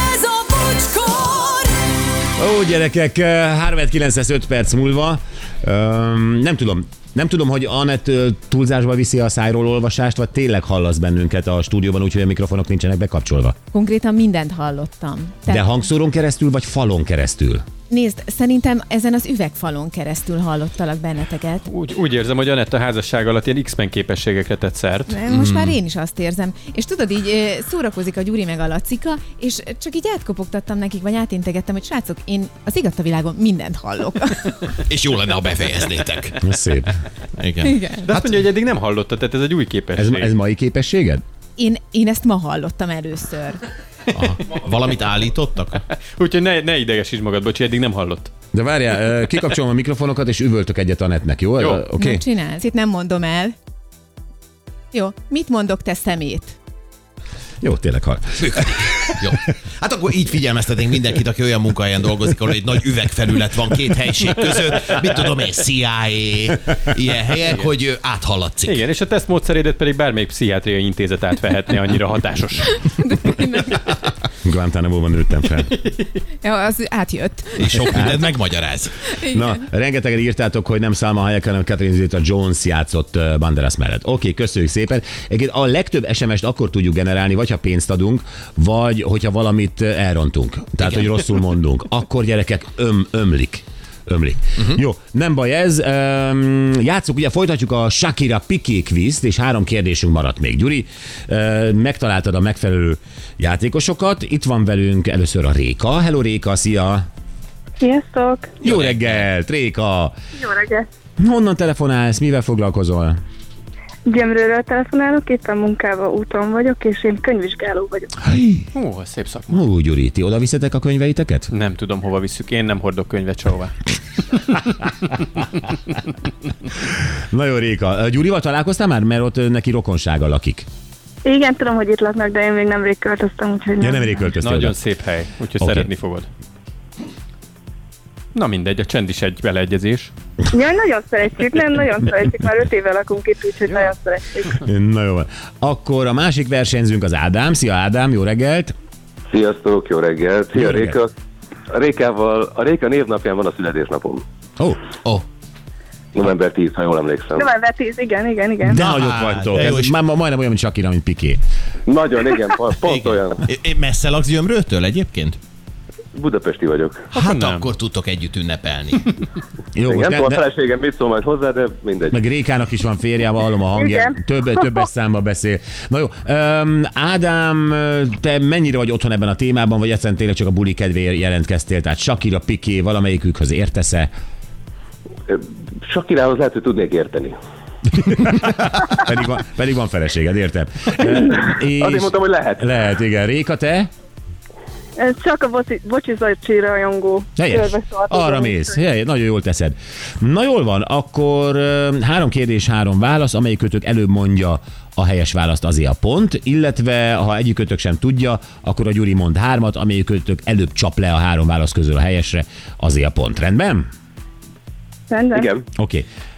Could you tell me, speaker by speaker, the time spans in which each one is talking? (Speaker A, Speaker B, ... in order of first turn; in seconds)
Speaker A: 2.4-13.5, 15.5-17.6, 36.4-36.9, 40.0-41.2, 48.5-52.2, 57.6-59.2, 74.4-75.7, 79.3-107.0, 108.6-110.1, 111.2-113.2, 118.2-118.7, 119.5-121.5, 127.3-130.7, 133.8-134.8, 135.6-135.9, 144.6-148.7, 150.6-151.0, 158.6-161.4, 169.8-170.4, 172.1-184.1, 187.9-193.9, 197.4-213.8, 215.8-216.1
Speaker B: 13.7-15.8, 17.9-21.6, 25.1-34.8, 37.6-37.9, 41.6-43.6, 51.9-53.5, 54.9-56.6, 72.8-74.0, 76.4-78.0, 79.1-79.6
Speaker C: 21.6-25.2, 38.0-40.3, 46.1-48.3, 68.6-72.8, 118.7-119.6, 121.5-123.7, 134.4-136.3, 138.3-140.1, 167.1-167.6
Speaker D: 25.3-25.8, 34.9-36.5, 37.4-38.4, 44.1-45.8, 58.4-68.8, 77.6-79.1, 90.8-91.1, 108.6-109.3, 158.7-159.9, 162.7-165.4, 167.1-169.1
Speaker E: 107.8-108.5, 110.4-110.9, 114.1-118.1, 131.2-134.1, 140.5-144.6, 157.3-158.8, 173.8-174.1, 195.0-198.7, 215.1-215.5
Speaker F: 149.3-151.1, 151.7-154.2, 156.1-157.4, 161.9-163.4, 166.1-167.0, 169.9-172.2, 185.3-187.3, 191.8-192.6